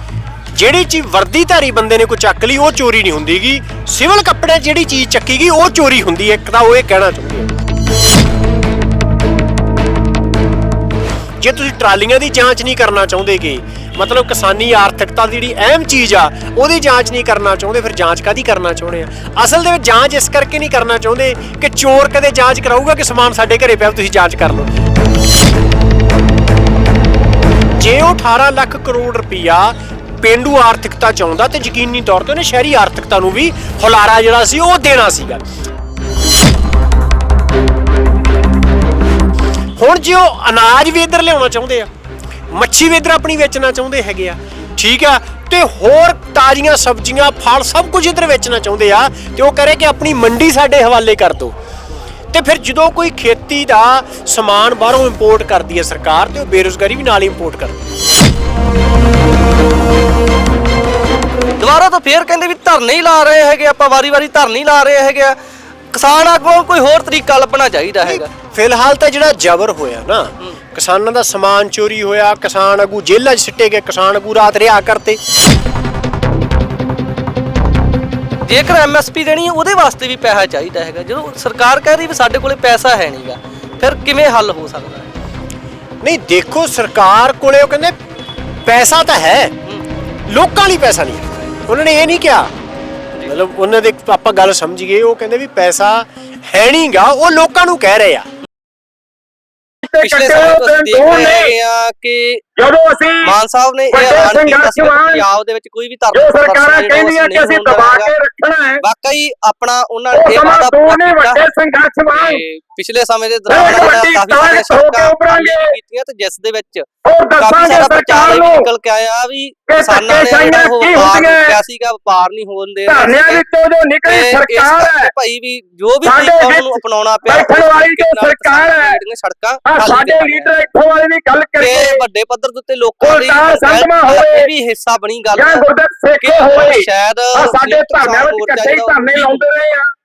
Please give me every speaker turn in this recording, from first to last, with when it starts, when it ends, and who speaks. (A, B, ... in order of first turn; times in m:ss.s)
0:00.5-0:07.5 A
0:11.4-0:24.8 A
0:27.8-0:35.4 A
0:39.8-0:41.9 A
0:42.5-0:51.5 A
0:52.3-0:57.9 A
1:01.6-1:05.4 B
1:05.9-1:08.3 B
1:08.0-1:15.2 A
1:18.4-1:25.1 B
1:26.0-1:27.9 A
1:28.6-1:29.5 A
1:30.3-1:32.5 A
1:33.2-1:38.3 A
1:39.8-1:41.5 C
1:40.0-1:42.4 B
1:42.6-1:43.3 C
1:43.2-1:48.1 B
1:43.9-1:45.2 C
1:46.1-1:48.8 C
1:48.8-1:51.4 B
1:50.1-1:52.4 C
1:52.1-1:56.8 B
1:53.5-1:55.7 C
1:57.0-1:58.7 C
1:57.4-2:03.4 B
1:59.7-2:01.6 C
2:02.9-2:05.1 C
2:04.0-2:10.5 B
2:06.0-2:09.0 C
2:09.6-2:12.0 C
2:11.6-2:15.6 B
2:13.0-2:14.5 C
2:15.3-2:19.9 C
2:16.2-2:19.4 B